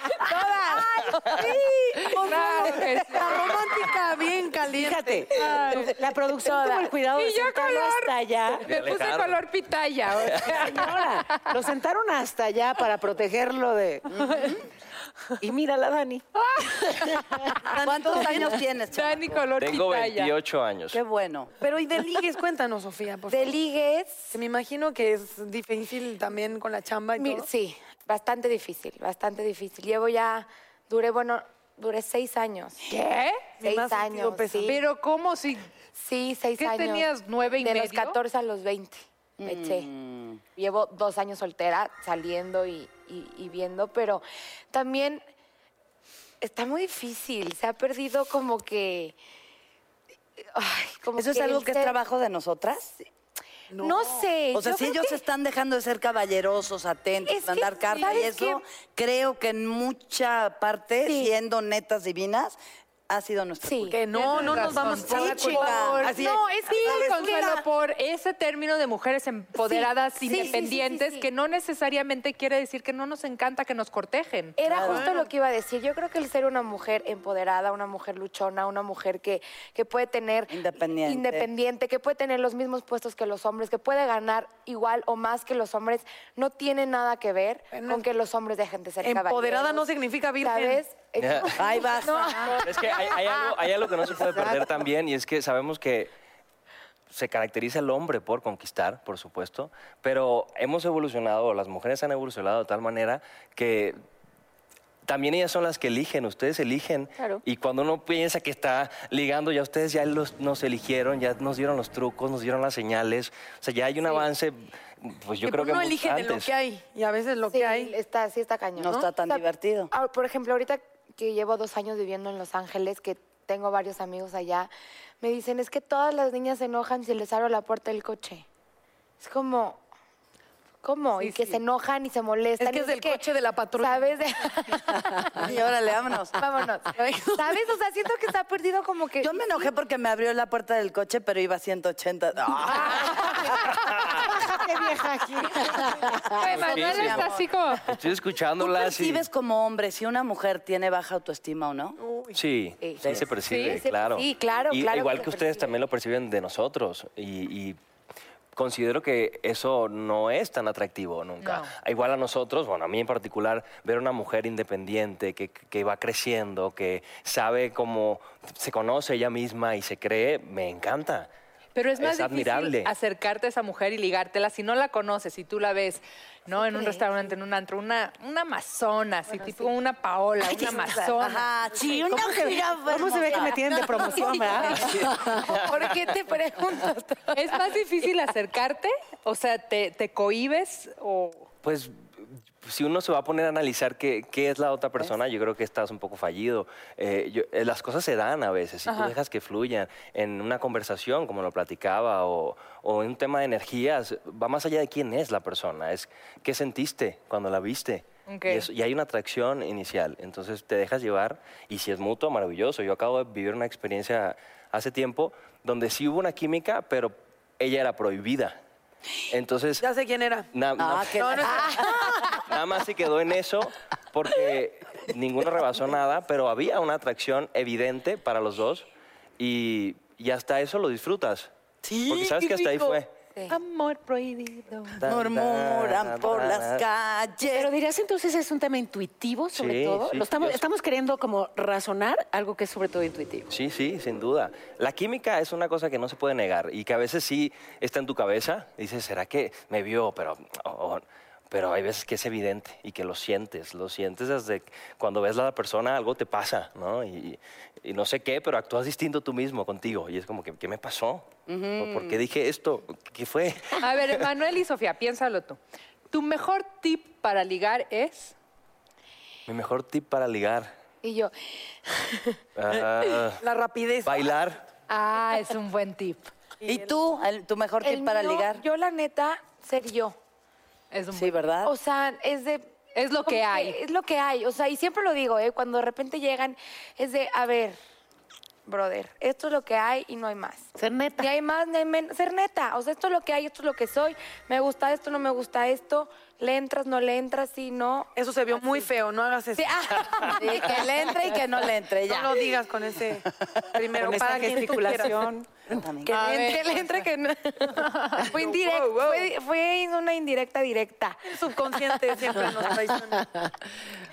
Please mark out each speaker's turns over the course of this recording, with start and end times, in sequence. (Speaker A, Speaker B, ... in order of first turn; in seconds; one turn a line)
Speaker A: 0.2-1.5
Speaker B: 2.1-5.8
Speaker C: 2.1-3.4
Speaker D: 4.7-8.6
Speaker C: 5.4-5.9
Speaker A: 6.4-6.9
Speaker C: 7.1-11.5
Speaker E: 8.7-9.4
Speaker E: 10.3-10.6
Speaker D: 10.5-14.1
Speaker F: 14.1-14.6
Speaker D: 15.4-16.2
Speaker C: 16.4-17.2
Speaker B: 17.7-18.5
Speaker F: 17.7-19.4
Speaker C: 18.9-20.3
Speaker E: 19.6-21.0
Speaker F: 20.9-21.5
Speaker B: 21.6-23.6
Speaker A: 23.3-24.3
Speaker B: 24.3-27.5
Speaker A: 27.2-32.8
Speaker C: 32.9-33.4
Speaker B: 33.6-34.8
Speaker A: 33.6-34.8
Speaker C: 34.6-35.7
Speaker A: 35.9-37.1
Speaker C: 36.6-38.2
Speaker A: 37.6-39.9
Speaker F: 39.4-40.4
Speaker A: 40.5-45.2
Speaker A: 46.4-49.1
Speaker A: 50.5-51.9
Speaker F: 51.1-52.9
Speaker B: 53.7-54.3
Speaker A: 53.8-55.2
Speaker F: 54.5-62.6
Speaker A: 57.2-58.6
Speaker A: 61.0-61.3
Speaker F: 63.1-64.0
Speaker A: 63.6-64.6
Speaker B: 63.9-67.5
Speaker C: 64.1-74.6
Speaker F: 64.9-66.1
Speaker A: 65.5-67.6
Speaker A: 69.6-71.3
Speaker A: 74.6-89.8
Speaker F: 74.7-75.0
Speaker B: 74.7-75.3
Speaker F: 80.5-81.5
Speaker B: 87.7-88.0
Speaker B: 89.0-90.8
Speaker A: 90.4-93.5
Speaker E: 91.2-91.6
Speaker F: 91.5-92.4
Speaker E: 92.6-96.1
Speaker E: 97.1-104.0
Speaker E: 105.0-116.5
Speaker B: 115.4-117.9
Speaker A: 117.5-124.7
Speaker F: 118.8-119.9
Speaker A: 125.2-128.4
Speaker A: 129.2-129.8
Speaker A: 130.8-133.2
Speaker B: 132.6-134.2
Speaker A: 133.8-135.4
Speaker F: 135.4-136.3
Speaker A: 136.4-139.7
Speaker F: 139.2-143.7
Speaker D: 144.5-146.2
Speaker F: 145.7-147.5
Speaker C: 146.4-147.8
Speaker E: 146.5-147.3
Speaker E: 147.8-149.2
Speaker F: 148.6-152.0
Speaker B: 152.0-152.3
Speaker E: 152.3-157.8
Speaker A: 152.8-155.8
Speaker F: 153.0-153.3
Speaker C: 153.5-153.8
Speaker E: 158.6-171.3
Speaker C: 161.4-161.7
Speaker C: 171.7-181.5
Speaker E: 172.0-172.9
Speaker A: 176.6-177.1
Speaker F: 181.0-183.6
Speaker D: 182.1-185.4
Speaker A: 184.0-187.6
Speaker C: 187.3-191.5
Speaker E: 191.6-218.6
Speaker C: 198.9-199.1
Speaker C: 208.3-208.7
Speaker E: 219.3-219.8
Speaker B: 219.8-220.5
Speaker E: 220.5-221.6
Speaker F: 220.8-222.4
Speaker B: 221.1-222.2
Speaker E: 222.4-228.8
Speaker E: 229.4-231.5
Speaker F: 231.8-232.8
Speaker E: 232.1-233.1
Speaker D: 233.5-234.9
Speaker E: 235.0-236.8
Speaker F: 235.0-237.7
Speaker D: 237.5-243.5
Speaker E: 239.5-240.6
Speaker E: 243.5-264.2
Speaker F: 261.5-262.2
Speaker C: 263.8-265.6
Speaker C: 266.1-268.3
Speaker E: 269.5-270.7
Speaker A: 271.0-272.3
Speaker E: 272.6-273.4
Speaker B: 273.4-274.3
Speaker E: 274.0-274.6
Speaker C: 274.9-276.3
Speaker B: 276.6-276.9
Speaker F: 276.6-278.6
Speaker A: 277.8-280.1
Speaker C: 280.9-281.4
Speaker F: 281.1-281.7
Speaker A: 281.6-282.7
Speaker C: 282.9-283.8
Speaker A: 283.2-287.8
Speaker A: 288.6-298.1
Speaker D: 290.8-291.3
Speaker B: 298.1-301.1
Speaker A: 299.6-301.2
Speaker F: 300.3-302.6
Speaker B: 302.1-305.3
Speaker F: 303.4-304.8
Speaker D: 303.9-305.9
Speaker F: 305.7-306.5
Speaker A: 306.1-311.2
Speaker C: 306.1-306.6
Speaker B: 306.1-307.0
Speaker B: 308.2-309.3
Speaker B: 311.3-313.3